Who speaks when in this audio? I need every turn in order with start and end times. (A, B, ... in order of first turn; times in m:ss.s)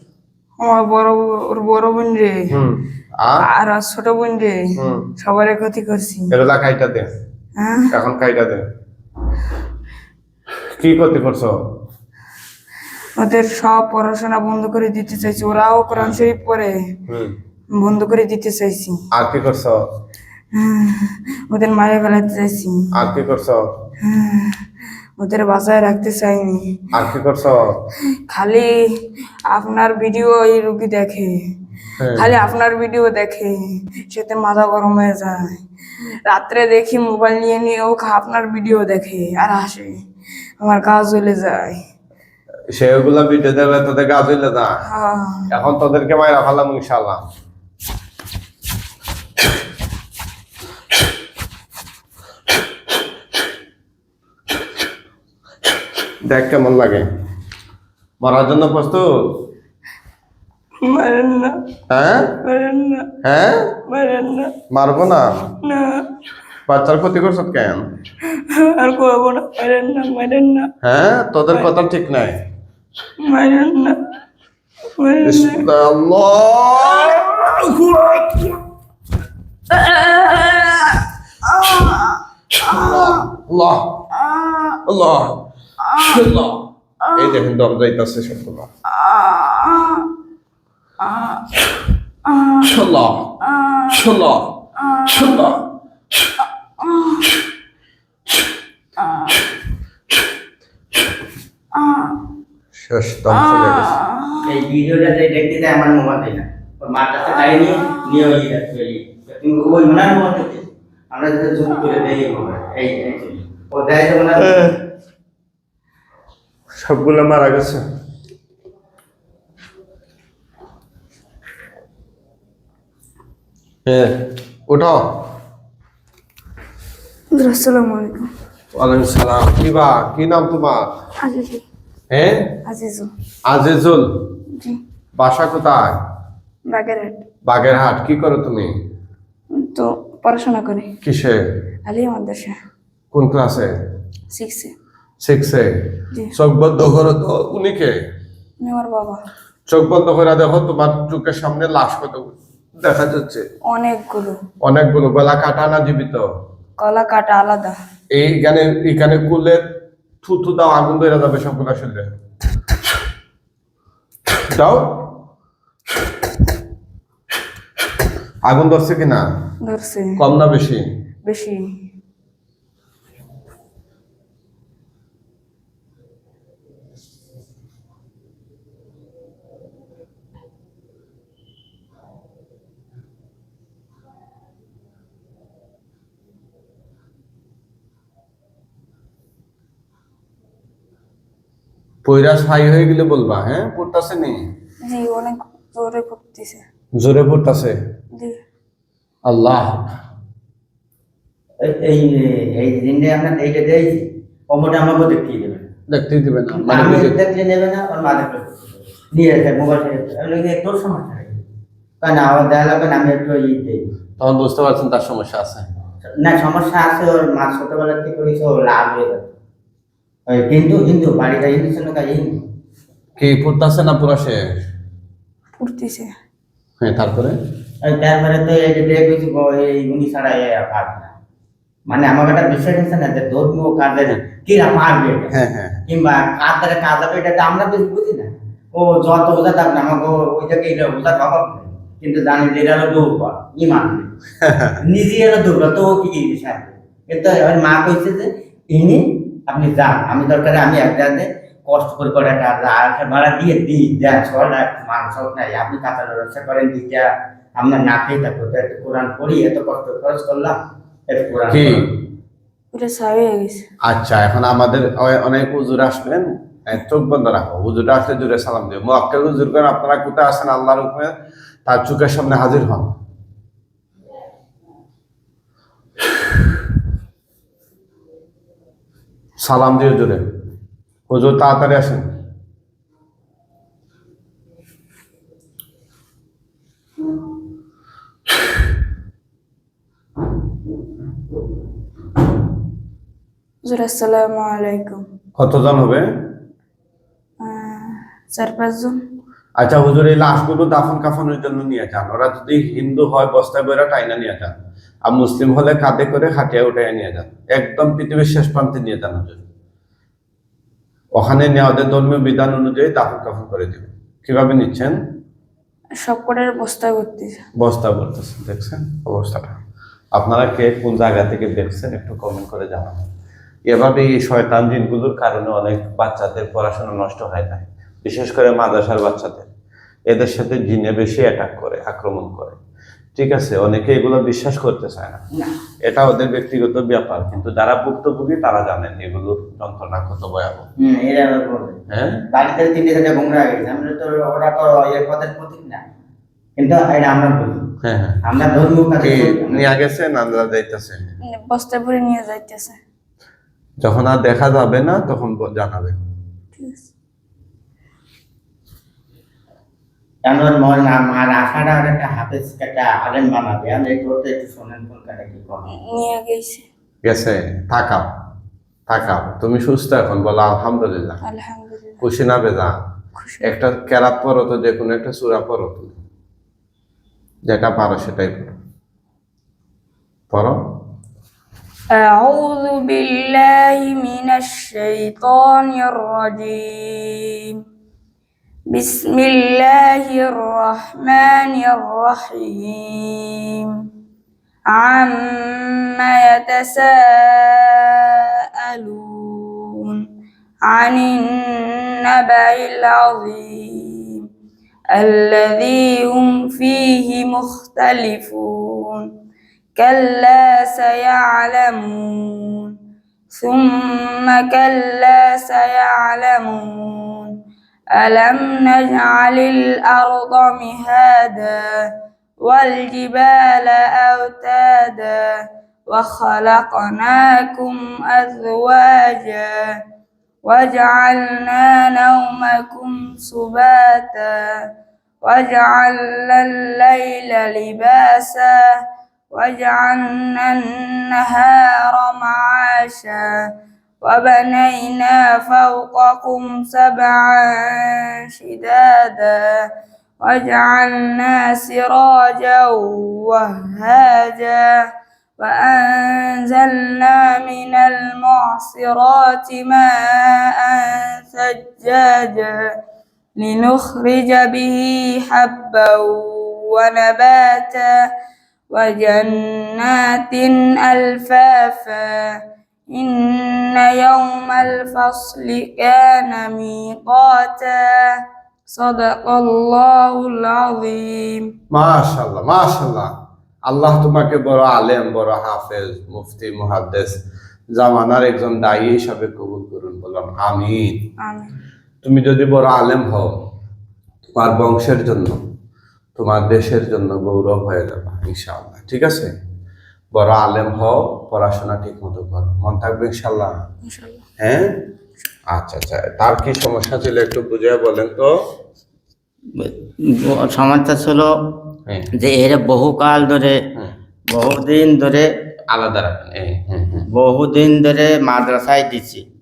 0:00.6-0:02.5 A
0:02.5-0:03.4 B
0:03.4-0:04.6 A
0:04.8-0:05.0 B
0:05.2-0:06.3 A
0:06.3-0:07.1 B
0:07.6-0:07.9 A
0:07.9-0:08.6 B
0:10.7-0:11.6 B
0:13.2-0:16.7 A
0:15.9-0:16.3 B
0:17.1-0:17.3 B
0:17.7-0:19.0 A
0:19.1-0:19.8 B
0:20.5-0:22.8 A
0:22.9-0:23.6 B
0:24.0-0:24.6 A
0:25.2-0:26.9 A
0:26.9-0:27.7 B
0:28.3-0:28.7 A
0:29.5-0:31.3 A
0:32.0-0:32.3 B
0:32.2-0:35.6 A
0:36.3-0:40.0 A
0:40.6-0:41.8 A
0:42.7-0:44.7 B
0:44.9-0:45.5 A
0:45.5-0:47.2 B
0:56.2-0:57.1 B
0:58.2-0:59.1 B
1:00.8-1:01.5 A
1:01.9-1:02.4 B
1:02.4-1:03.1 A
1:03.2-1:03.7 B
1:03.9-1:04.5 A
1:04.7-1:05.3 B
1:05.6-1:06.0 A
1:06.7-1:07.8 B
1:08.4-1:10.7 A
1:10.8-1:12.4 B
1:13.2-1:14.0 A
1:15.0-1:15.6 A
1:15.2-1:18.6 B
1:17.0-1:17.3 A
1:19.7-1:23.3 A
1:22.6-1:24.0 B
1:24.2-1:24.8 A
1:24.9-1:28.7 B
1:25.8-1:26.3 A
1:27.0-1:27.4 A
1:28.9-1:30.1 A
1:31.0-1:31.5 A
1:32.3-1:32.7 A
1:32.6-1:33.4 B
1:33.4-1:34.1 A
1:33.9-1:35.6 B
1:34.8-1:35.6 A
1:36.8-1:37.3 A
1:39.0-1:39.5 A
1:41.7-1:42.2 A
1:42.8-1:44.0 B
1:43.3-1:44.5 A
1:44.4-1:54.7 C
1:56.8-1:57.8 B
2:03.9-2:05.0 B
2:07.3-2:08.3 A
2:08.8-2:10.9 B
2:11.2-2:11.6 A
2:12.1-2:12.5 B
2:12.6-2:13.1 A
2:13.5-2:14.1 B
2:15.2-2:15.9 B
2:16.7-2:17.2 A
2:17.5-2:18.7 B
2:19.6-2:20.9 A
2:21.0-2:21.4 B
2:21.9-2:22.5 A
2:23.1-2:23.7 B
2:24.3-2:24.7 A
2:25.2-2:25.7 B
2:26.3-2:27.9 B
2:28.6-2:29.2 A
2:29.7-2:33.4 B
2:33.7-2:34.4 A
2:34.6-2:36.2 B
2:36.8-2:37.8 A
2:38.1-2:39.6 B
2:40.2-2:42.1 B
2:44.5-2:45.1 B
2:48.4-2:49.3 B
2:49.7-2:50.2 A
2:50.2-2:50.8 B
2:51.3-2:51.6 A
3:12.0-3:14.4 B
3:14.8-3:16.6 A
3:17.0-3:17.8 B
3:19.2-3:19.9 B
3:21.6-3:25.7 C
3:25.9-3:27.2 B
3:26.5-3:31.4 C
3:32.0-3:33.8 C
3:34.2-3:35.7 B
3:36.2-3:39.3 C
3:40.3-3:42.4 C
3:43.2-3:44.4 B
3:45.6-3:46.1 A
3:46.8-3:47.4 B
3:47.8-3:51.1 C
3:51.9-3:55.4 C
3:55.3-3:55.8 B
3:55.9-4:04.1 C
4:04.4-4:04.8 B
4:04.8-4:20.6 C
4:21.1-4:21.9 C
4:21.5-4:21.9 B
4:22.7-4:23.6 A
4:23.9-4:31.1 B
4:31.7-4:32.9 B
4:39.4-4:40.2 B
4:41.1-4:42.0 B
4:53.6-4:55.0 A
4:55.4-4:56.0 B
4:57.4-4:59.0 A
4:59.6-5:04.5 B
5:05.1-5:09.4 B
5:11.2-5:15.0 B
5:16.0-5:17.4 A
5:17.6-5:19.6 B
5:20.1-5:23.0 B
5:23.7-5:29.5 B
5:30.1-5:32.6 B
5:33.2-5:35.2 B
5:35.8-5:40.7 B
5:40.8-5:41.8 C
5:41.9-5:42.2 B
5:42.3-5:45.9 C
5:46.6-5:47.6 C
5:47.8-5:48.2 B
5:48.2-5:49.7 C
5:49.0-5:51.1 B
5:51.3-5:52.8 A
5:53.8-5:56.0 B
5:56.6-5:56.9 A
6:00.3-6:05.7 C
6:05.7-6:06.6 A
6:07.0-6:08.1 B
6:08.9-6:11.2 B
6:11.2-6:12.0 A
6:12.0-6:12.8 B
6:13.2-6:13.6 A
6:13.4-6:16.0 B
6:17.5-6:18.5 B
6:20.3-6:20.6 B
6:21.9-6:27.5 A
6:28.7-6:33.7 A
6:34.7-6:40.0 A
6:40.7-6:44.2 A
6:44.9-6:49.1 A
6:49.8-6:52.7 A
6:53.3-6:57.3 A
6:58.0-7:01.7 A
7:02.4-7:05.3 A
7:05.9-7:09.7 A
7:10.4-7:14.5 A
7:15.2-7:18.6 A
7:19.3-7:23.3 A
7:24.0-7:29.6 A
7:30.2-7:34.8 A
7:35.4-7:42.7 A
7:43.4-7:48.0 A
7:48.7-7:52.3 A
7:52.9-7:58.1 A
7:58.7-8:01.5 A
8:01.7-8:03.1 B
8:03.7-8:07.2 B
8:07.8-8:11.0 B
8:11.2-8:11.5 A
8:12.0-8:13.3 B
8:14.4-8:15.4 B
8:16.2-8:19.3 B
8:20.1-8:23.6 B
8:23.8-8:24.2 A
8:24.4-8:24.7 B
8:25.5-8:28.3 B
8:29.6-8:31.3 C
8:32.2-8:33.6 C
8:34.3-8:35.3 C
8:35.7-8:37.1 B
8:37.1-8:39.2 C